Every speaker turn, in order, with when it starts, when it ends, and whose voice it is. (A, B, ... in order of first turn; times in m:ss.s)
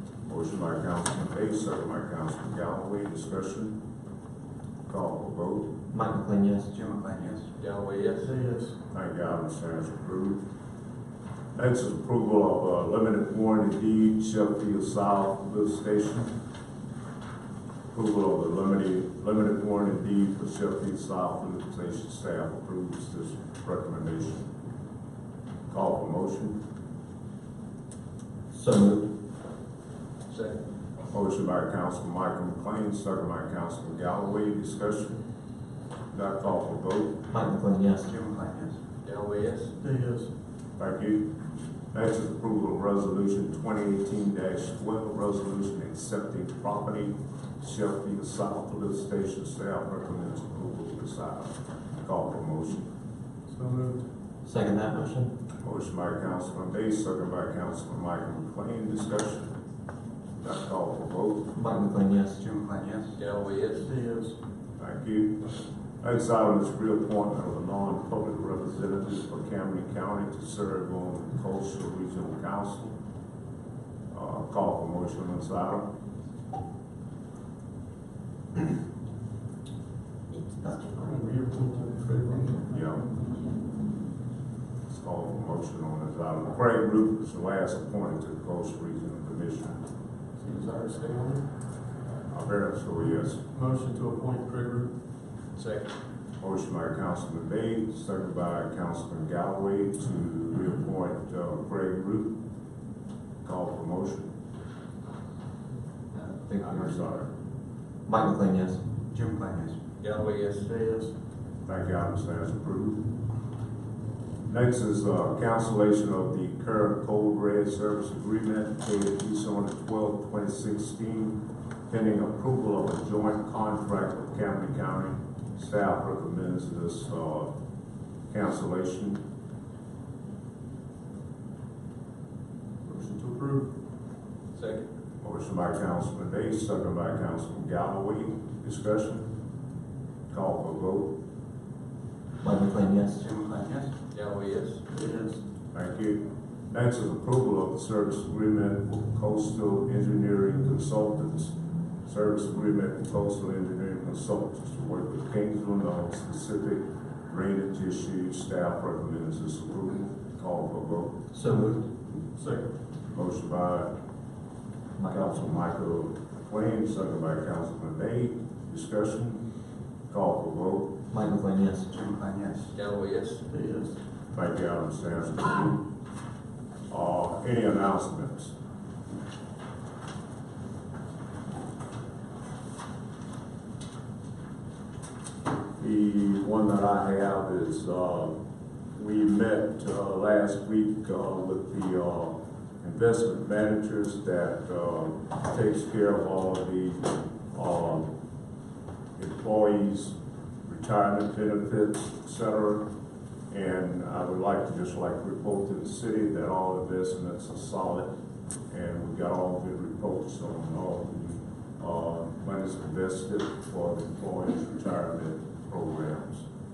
0:00.2-0:03.8 A
0:04.9-0:05.7 A
0:05.9-0:06.7 B
0:06.7-0:07.5 C
0:07.6-0:08.3 D
0:08.2-0:08.8 E
0:08.9-0:10.4 A
0:11.6-0:16.3 A
0:17.9-0:24.5 A
0:25.7-0:26.6 A
0:28.5-0:29.0 B
0:30.3-0:30.6 D
0:31.1-0:35.2 A
0:36.1-0:37.2 A
0:37.3-0:38.1 B
0:38.1-0:38.8 C
0:39.0-0:39.7 D
0:39.8-0:40.3 E
0:40.8-0:41.2 A
0:41.9-0:52.8 A
0:53.5-0:54.0 E
0:54.4-0:55.3 B
0:55.6-0:59.5 A
1:00.4-1:01.5 A
1:01.6-1:02.4 B
1:02.4-1:03.2 C
1:03.2-1:03.9 D
1:03.8-1:04.4 E
1:04.8-1:05.5 A
1:06.0-1:12.9 A
1:14.1-1:15.9 A
1:20.9-1:22.7 E
1:22.7-1:23.1 A
1:24.9-1:29.8 A
1:30.4-1:31.5 E
1:32.3-1:33.4 A
1:33.5-1:34.9 E
1:35.6-1:35.9 D
1:36.4-1:42.3 A
1:43.4-1:44.3 A
1:46.2-1:47.0 B
1:46.6-1:47.3 A
1:48.1-1:48.8 B
1:49.1-1:49.8 C
1:50.0-1:50.7 D
1:50.6-1:51.1 E
1:51.6-1:53.0 A
1:54.5-2:07.5 A
2:08.3-2:09.2 A
2:12.8-2:13.7 E
2:14.5-2:14.9 D
2:15.2-2:19.3 A
2:20.3-2:21.1 A
2:22.4-2:23.2 B
2:23.2-2:23.9 C
2:24.1-2:24.8 D
2:24.9-2:25.4 E
2:25.7-2:41.2 A
2:41.3-2:41.7 B
2:42.3-2:42.7 E
2:43.1-2:43.9 A
2:45.0-2:45.3 B
2:45.0-2:49.4 A
2:50.1-2:50.9 A
2:51.1-2:51.9 B
2:51.9-2:52.7 C
2:52.7-2:53.4 D
2:53.5-2:53.9 E
2:54.3-2:55.8 A
2:56.9-2:58.5 A
3:05.8-3:08.3 A
3:08.9-3:18.1 A
3:19.2-3:22.8 A
3:23.5-3:28.1 A
3:28.7-3:36.4 A